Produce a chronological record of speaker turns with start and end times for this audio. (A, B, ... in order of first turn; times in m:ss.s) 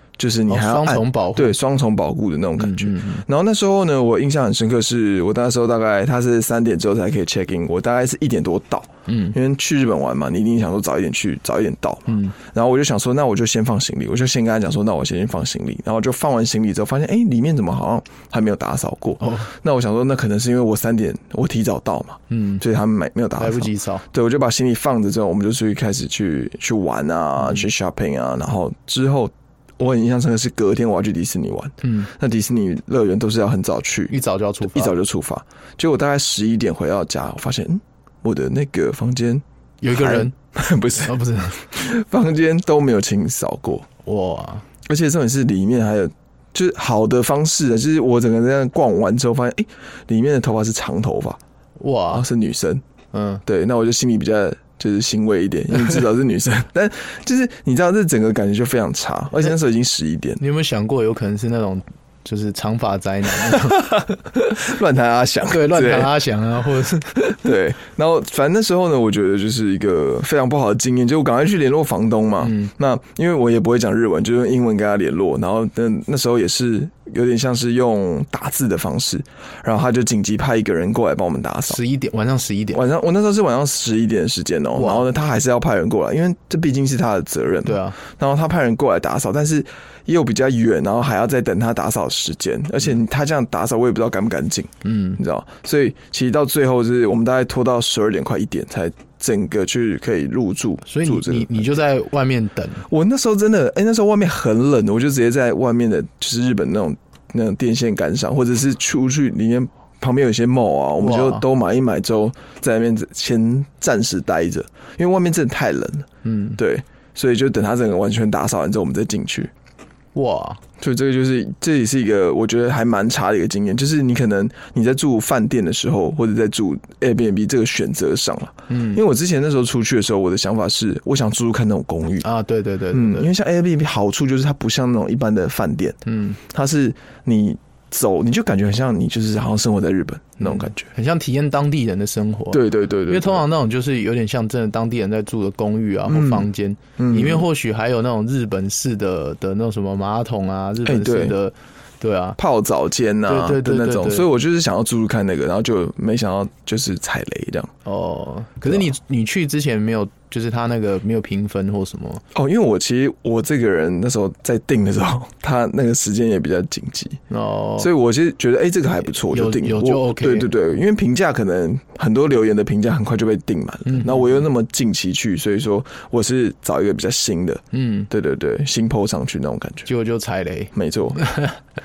0:00.2-0:34.2 A
0:00.5-0:01.6 B
0:02.6-0:03.2 B
0:09.1-0:09.4 B
0:12.1-0:12.4 B
0:19.2-0:19.5 B
0:22.3-0:22.6 B
0:23.4-0:24.0 B
0:31.8-0:32.1 B
0:34.1-0:34.9 B
0:34.7-0:43.9 A
0:39.8-0:40.3 B
0:41.0-0:41.7 B
0:44.0-0:44.6 B
0:44.8-0:51.4 A
0:51.8-0:52.3 B
0:52.1-0:52.8 A
0:53.1-0:53.4 B
0:53.4-1:00.4 A
1:00.4-1:04.2 B
1:03.5-1:06.1 A
1:05.5-1:07.5 B
1:07.3-1:21.8 A
1:12.4-1:12.7 B
1:21.7-1:22.8 B
1:22.7-1:41.7 A
1:24.8-1:25.0 B
1:27.6-1:28.0 B
1:34.8-1:35.2 B
1:40.8-1:42.9 B
1:42.9-1:59.5 A
1:51.0-1:51.4 B
1:56.2-1:56.6 B
2:00.1-2:00.6 B
2:00.8-2:12.3 A
2:08.7-2:09.0 B
2:12.2-2:13.3 B
2:12.9-2:20.9 A
2:16.0-2:16.4 B
2:20.4-2:32.4 B
2:22.5-2:23.5 A
2:26.1-2:27.5 A
2:30.8-2:31.4 A
2:32.4-2:37.7 A
2:33.3-2:34.3 B
2:37.8-2:42.2 B
2:38.6-2:38.9 A
2:42.3-2:47.2 A
2:47.3-2:47.9 B
2:47.8-2:59.9 A
2:49.3-2:50.5 B
2:53.9-2:54.4 B
2:57.7-2:58.1 B
2:59.9-3:01.6 B
3:00.7-3:01.2 A